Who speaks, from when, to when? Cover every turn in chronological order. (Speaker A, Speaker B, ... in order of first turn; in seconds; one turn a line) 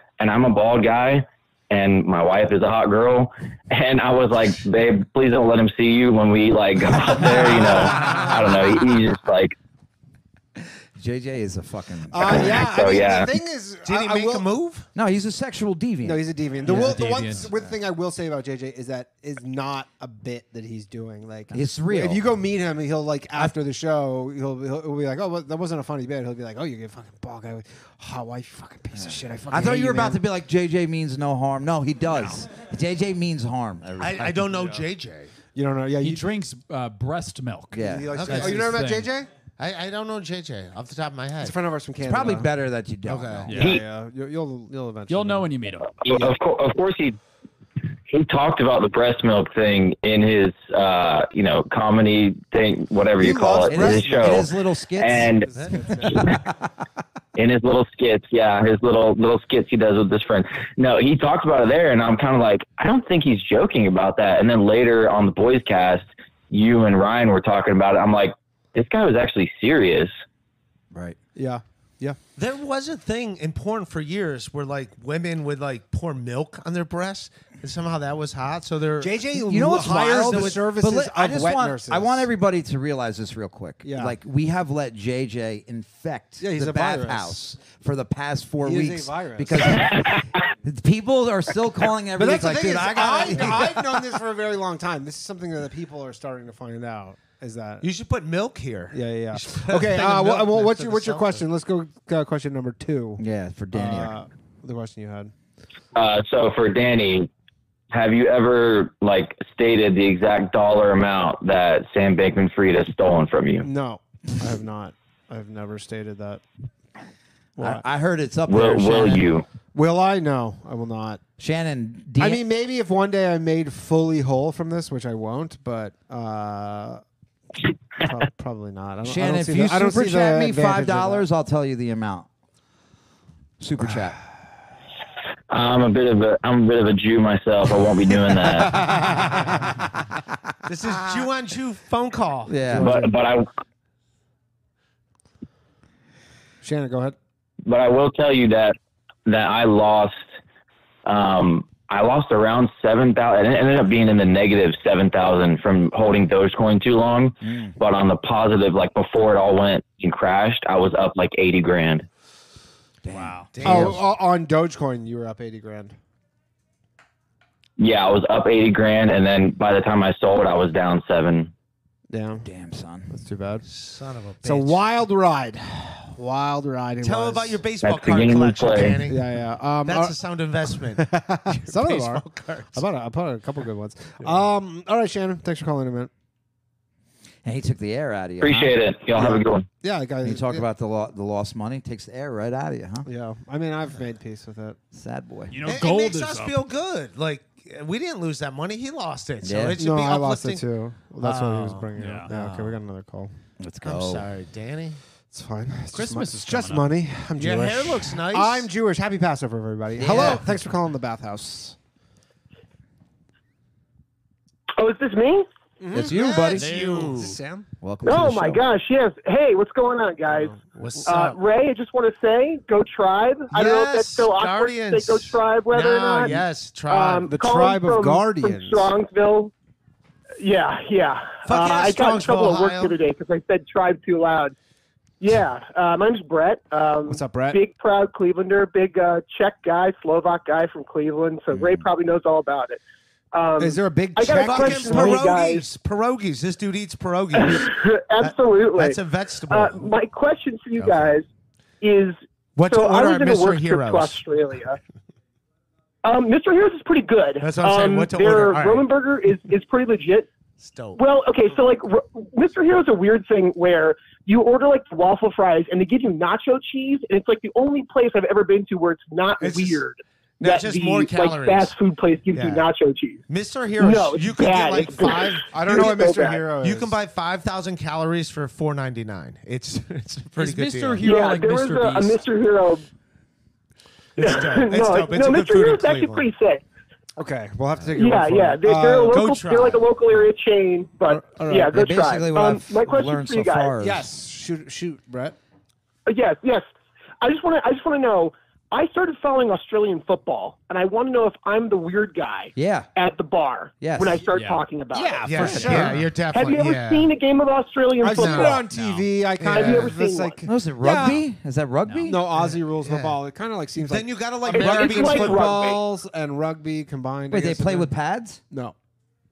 Speaker A: 0.2-9.6
Speaker B: 11.0-12.6
Speaker C: 12.1-14.5
Speaker A: 12.3-13.3
Speaker D: 13.8-14.9
Speaker B: 14.9-17.7
Speaker C: 16.0-30.2
Speaker E: 16.6-17.5
Speaker B: 21.5-22.2
Speaker B: 28.9-34.8
Speaker D: 34.0-35.3
Speaker C: 35.5-36.3
Speaker E: 36.0-39.1
Speaker B: 37.7-38.5
Speaker C: 37.8-39.3
Speaker D: 38.1-38.7
Speaker D: 39.6-41.6
Speaker C: 41.4-42.5
Speaker B: 42.0-43.6
Speaker D: 43.1-43.6
Speaker E: 43.5-43.8
Speaker C: 43.5-45.5
Speaker E: 45.1-45.9
Speaker A: 46.0-47.2
Speaker A: 48.1-55.5
Speaker C: 53.2-54.5
Speaker B: 53.7-55.5
Speaker C: 55.6-56.3
Speaker A: 56.0-56.4
Speaker A: 57.4-70.1
Speaker B: 70.9-71.2
Speaker C: 71.3-72.2
Speaker D: 72.4-79.2
Speaker C: 79.0-82.3
Speaker B: 79.4-93.9
Speaker D: 80.2-80.6
Speaker C: 83.8-84.2
Speaker C: 86.4-87.4
Speaker C: 88.6-89.9
Speaker C: 92.2-97.9
Speaker D: 97.8-101.5
Speaker C: 98.9-105.3
Speaker B: 103.2-104.1
Speaker A: 106.0-107.3
Speaker A: 107.9-113.7
Speaker C: 113.6-116.4
Speaker C: 117.6-117.8
Speaker B: 117.6-119.3
Speaker A: 118.5-119.5
Speaker C: 119.7-121.2
Speaker B: 121.4-122.4
Speaker C: 122.2-127.0
Speaker C: 128.0-131.3
Speaker B: 129.0-132.3
Speaker B: 133.6-134.2
Speaker A: 135.5-138.8
Speaker D: 140.7-142.8
Speaker B: 142.5-142.9
Speaker C: 142.7-143.0
Speaker A: 142.8-143.5
Speaker C: 146.6-147.2
Speaker A: 147.7-150.3
Speaker A: 151.1-162.1
Speaker B: 157.4-157.7
Speaker B: 163.0-163.9
Speaker E: 163.1-163.6
Speaker D: 163.5-164.1
Speaker C: 163.6-165.9
Speaker A: 167.8-171.5
Speaker C: 172.1-172.5
Speaker B: 172.4-173.1
Speaker C: 173.1-173.7
Speaker D: 173.7-174.8
Speaker C: 174.4-177.6
Speaker D: 177.0-182.8
Speaker A: 177.8-179.0
Speaker C: 179.0-186.1
Speaker D: 184.2-184.5
Speaker B: 187.4-188.8
Speaker A: 188.4-189.7
Speaker C: 189.2-190.7
Speaker B: 190.2-193.1
Speaker C: 193.1-194.8
Speaker B: 194.9-195.6
Speaker E: 195.5-196.7
Speaker D: 195.7-200.7
Speaker B: 199.4-199.8
Speaker C: 199.8-203.3
Speaker D: 201.2-202.3
Speaker E: 202.0-202.8
Speaker B: 203.6-204.3
Speaker D: 203.8-205.0
Speaker C: 205.3-211.8
Speaker E: 205.9-206.9
Speaker D: 207.4-208.7
Speaker B: 210.0-210.5
Speaker F: 214.7-215.5
Speaker C: 215.8-217.7
Speaker B: 215.9-216.7
Speaker D: 216.4-217.4
Speaker E: 216.6-217.3
Speaker B: 217.8-218.6
Speaker F: 218.0-220.6
Speaker C: 220.3-221.0
Speaker D: 220.8-221.4
Speaker F: 221.1-229.5
Speaker D: 223.5-227.3
Speaker C: 227.3-228.9
Speaker F: 230.4-234.5
Speaker D: 231.4-233.0
Speaker F: 235.2-242.8
Speaker C: 237.1-237.6
Speaker D: 241.5-241.8
Speaker F: 243.3-245.7
Speaker C: 243.6-245.3
Speaker D: 244.4-249.9
Speaker F: 247.3-251.2
Speaker D: 250.8-251.2
Speaker F: 251.8-254.8
Speaker D: 252.6-254.2
Speaker F: 256.0-260.3
Speaker D: 257.4-258.9
Speaker D: 260.6-261.0
Speaker F: 261.0-273.2
Speaker D: 269.4-269.8
Speaker D: 270.4-271.7
Speaker D: 272.3-272.7
Speaker D: 273.3-281.1
Speaker F: 273.8-276.5
Speaker C: 275.5-277.0
Speaker E: 280.4-282.2
Speaker F: 281.0-282.9
Speaker D: 284.2-286.3
Speaker F: 284.2-286.6
Speaker C: 287.2-289.1
Speaker F: 288.0-293.8
Speaker D: 289.1-289.8
Speaker C: 291.1-291.7
Speaker B: 291.6-294.1
Speaker C: 293.8-295.4
Speaker F: 296.1-296.6
Speaker F: 297.2-308.6
Speaker B: 302.6-302.9
Speaker B: 303.8-304.2
Speaker E: 304.3-304.6
Speaker C: 304.9-306.1
Speaker D: 305.2-307.1
Speaker E: 305.4-306.1
Speaker C: 308.0-311.2
Speaker D: 308.1-308.6
Speaker E: 308.7-309.2
Speaker D: 309.4-310.0
Speaker F: 309.5-310.4
Speaker B: 310.4-312.2
Speaker E: 311.9-312.2
Speaker C: 312.1-317.9
Speaker D: 312.8-313.2
Speaker D: 313.8-315.6
Speaker F: 314.5-315.9
Speaker B: 317.3-318.4
Speaker C: 318.5-318.8